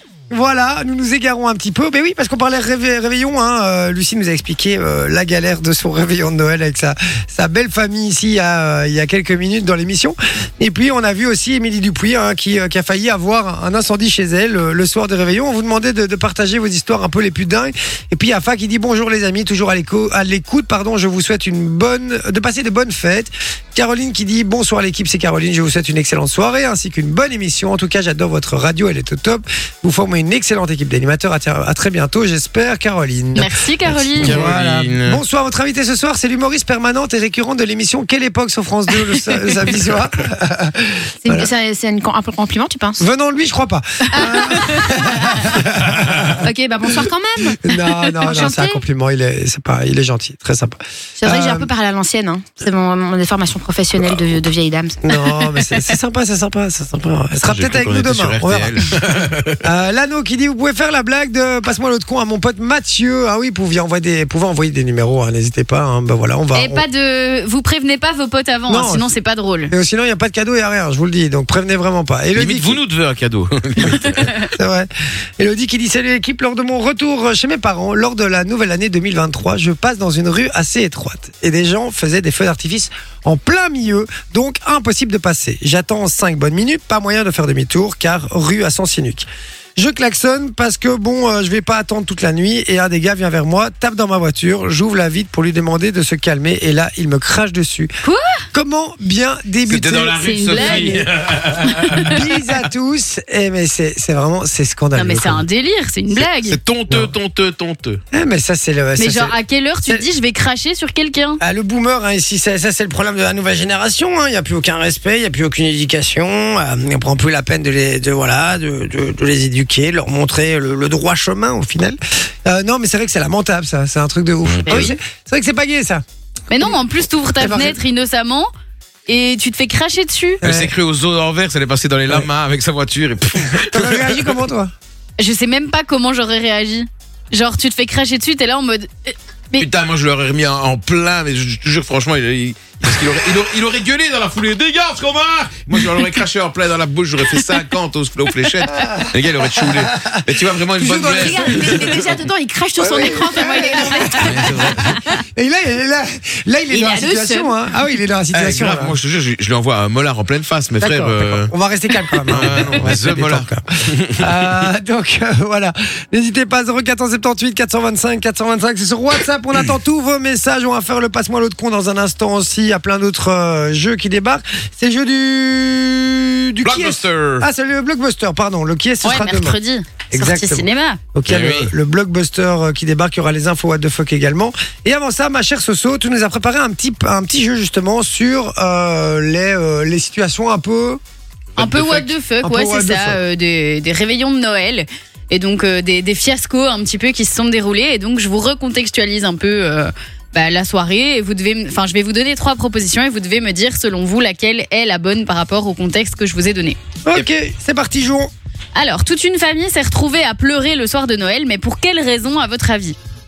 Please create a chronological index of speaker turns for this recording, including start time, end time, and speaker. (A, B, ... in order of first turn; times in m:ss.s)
0:00.3-0:41.5 A
0:33.3-0:34.4 B
0:34.2-0:35.2 C
0:41.2-0:43.0 D
0:43.0-0:51.7 A
0:44.1-0:45.6 D
0:46.4-0:48.8 D
0:51.2-0:55.0 D
0:55.0-0:58.8 A
0:55.3-0:55.7 B
0:57.4-0:59.6 C
0:59.6-1:06.8 A
1:06.5-1:09.7 B
1:08.7-1:09.1 A
1:09.7-1:12.8 A
1:12.3-1:14.5 C
1:13.8-1:37.9 A
1:38.0-1:38.4 B
1:38.5-1:41.1 A
1:39.7-1:42.2 C
1:40.2-1:41.0 B
1:41.7-1:42.1 B
1:41.9-1:45.4 A
1:44.9-1:46.6 B
1:46.2-1:48.0 C
1:48.1-1:50.0 A
1:49.0-1:51.4 B
1:51.4-2:06.0 A
2:04.4-2:04.9 C
2:04.7-2:05.0 B
2:06.5-2:08.5 B
2:07.4-2:07.8 A
2:09.1-2:10.4 B
2:10.4-2:10.7 A
2:10.4-2:14.4 C
2:13.6-2:14.7 A
2:15.2-2:19.7 B
2:19.6-2:32.2 C
2:28.8-2:32.0 A
2:30.8-2:35.2 D
2:32.8-2:39.0 A
2:34.1-2:34.9 C
2:36.7-2:37.5 D
2:38.3-2:41.5 C
2:40.8-2:59.6 A
2:42.3-2:44.5 C
2:56.6-2:57.5 C
2:59.0-3:01.0 B
3:00.1-3:11.0 A
3:01.2-3:01.7 C
3:11.6-3:12.1 C
3:11.6-3:26.8 B
3:11.8-3:13.2 A
3:27.0-3:28.3 A
3:28.7-3:33.0 B